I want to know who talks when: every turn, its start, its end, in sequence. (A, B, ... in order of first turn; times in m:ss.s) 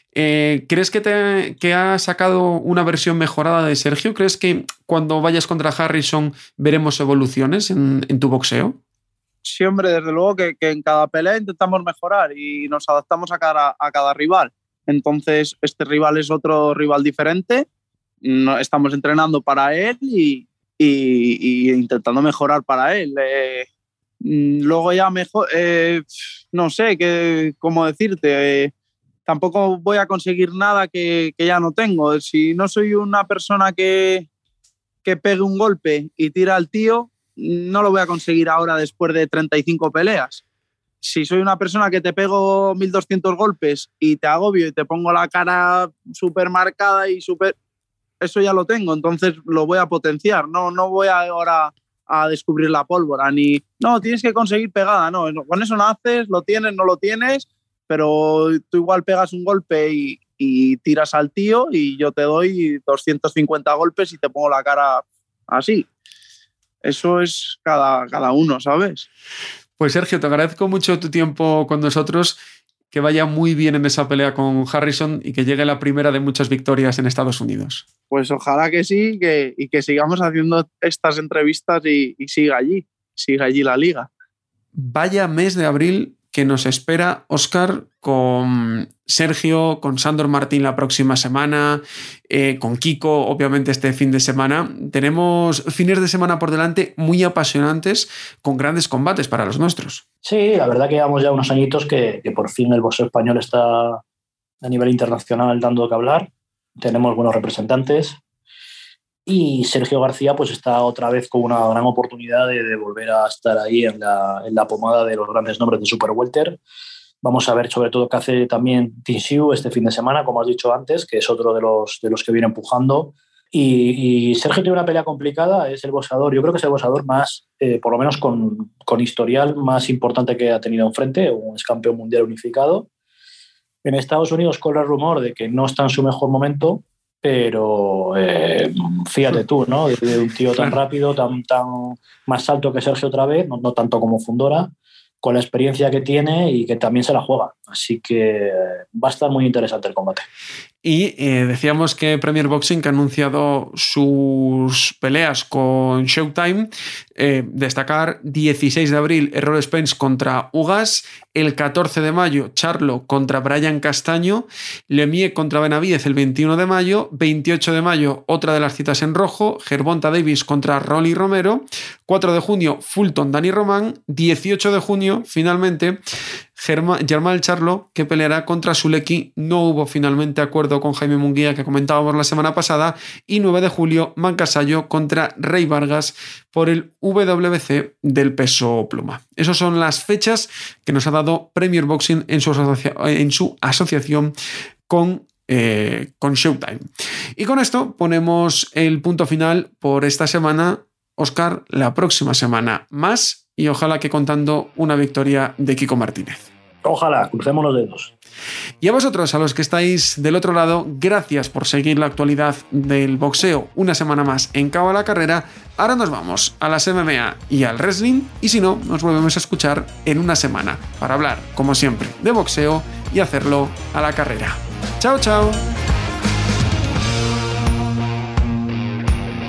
0:00.1-0:08.8 A
0:09.4-0:17.6 B
0:18.2-0:23.7 B
0:24.2-0:28.7 B
0:29.2-0:34.3 B
0:35.0-0:40.4 B
0:41.0-0:47.5 B
0:48.2-1:05.9 B
1:06.8-1:09.0 B
1:09.8-1:12.4 A
1:12.9-1:17.8 A
1:18.1-1:24.1 B
1:24.8-1:40.0 A
1:40.2-1:44.0 C
1:44.6-1:48.2 C
1:49.2-1:56.6 C
1:57.2-2:12.9 C
2:13.8-2:30.2 C
2:30.8-2:56.0 A
2:56.6-3:14.3 A
3:14.9-3:16.8 A
3:17.4-3:26.5 A
3:26.8-3:28.1 C
3:28.8-3:45.6 A